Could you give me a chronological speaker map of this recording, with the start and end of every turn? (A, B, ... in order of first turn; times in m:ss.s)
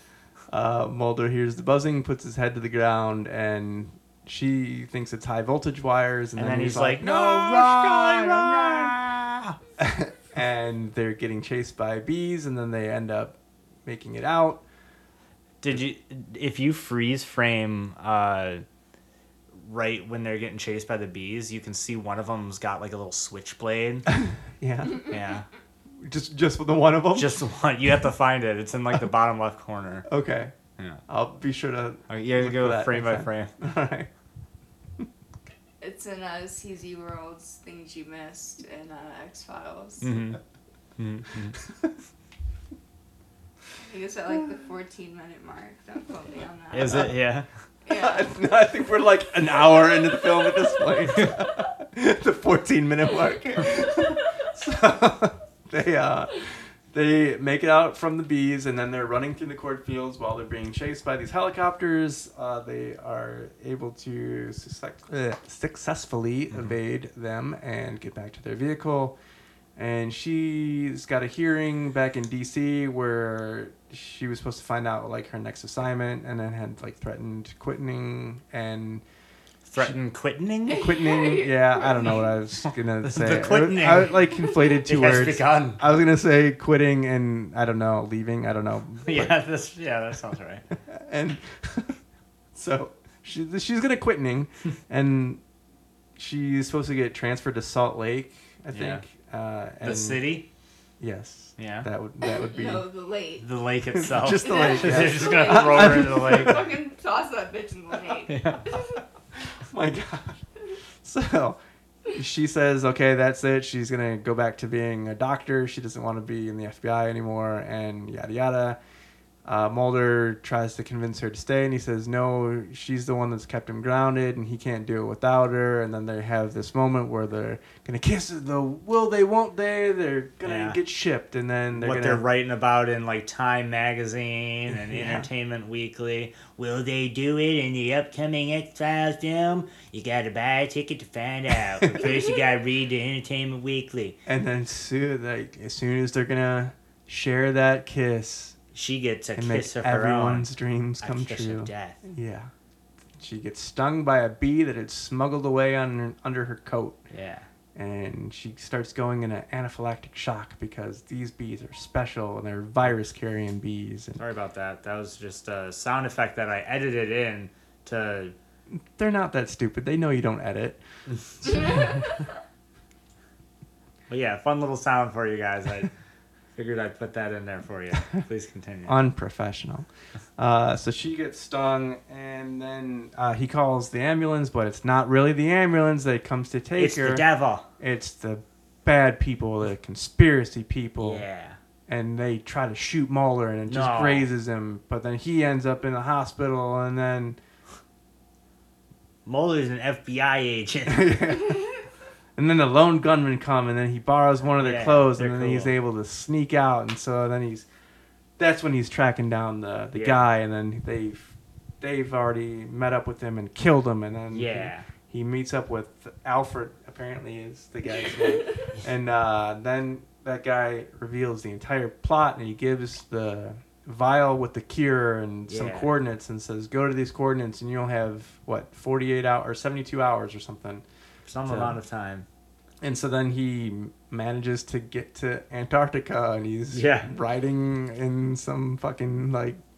0:00.5-0:08.9 A
0:06.4-0:09.6 B
0:09.8-0:14.6 A
0:15.6-0:18.6 B
0:19.5-0:24.0 B
0:24.1-0:25.2 A
0:25.0-0:25.4 B
0:26.0-0:27.4 A
0:27.1-0:30.1 B
0:30.1-0:30.5 A
0:31.1-0:34.1 A
0:32.1-0:33.5 B
0:35.8-0:40.1 C
0:40.0-0:40.4 B
0:41.0-0:41.5 B
0:43.8-0:47.1 C
0:46.7-0:47.5 B
0:47.8-0:48.3 C
0:47.9-1:09.1 A
1:09.8-1:19.0 A
1:19.7-1:20.9 B
1:20.7-1:22.3 C
1:20.7-1:29.4 A
1:23.0-1:25.8 B
1:24.4-1:24.7 C
1:29.0-1:30.6 B
1:30.9-1:32.0 A
1:32.5-1:35.4 A
1:36.2-1:40.3 A
1:38.7-1:39.0 B
1:39.8-1:40.5 B
1:41.0-1:42.8 A
1:41.6-1:41.9 B
1:42.2-1:43.5 C
1:43.4-1:46.6 B
1:43.9-1:46.7 A
1:44.4-1:49.0 C
1:48.3-1:48.7 B
1:49.5-1:50.4 A
1:51.0-1:58.8 A
1:59.4-2:12.2 A
2:10.4-2:10.8 B
2:11.7-2:24.2 B
2:14.7-2:15.3 A
2:24.2-2:28.6 A
2:28.7-2:30.5 B
2:29.4-2:32.5 A
2:31.0-2:32.0 B
2:33.2-2:37.0 A
2:37.1-2:37.5 B
2:37.7-2:44.2 A
2:44.2-2:48.3 B
2:48.7-2:50.8 A
2:51.4-2:52.2 A
2:54.1-2:55.9 B
2:56.5-2:59.0 B
2:58.8-3:07.2 A
3:06.8-3:07.6 B
3:07.8-3:11.2 A
3:11.0-3:11.6 B
3:11.9-3:17.4 A
3:13.7-3:14.3 B
3:19.2-3:21.4 B
3:20.9-3:21.7 A
3:22.4-3:27.6 A
3:24.6-3:25.7 B
3:28.4-3:50.8 A
3:29.9-3:30.3 B
3:34.3-3:34.9 B
3:45.5-3:45.9 B
3:51.2-3:52.2 B
3:51.4-3:51.8 A
3:52.8-3:59.6 A
3:56.7-3:57.1 B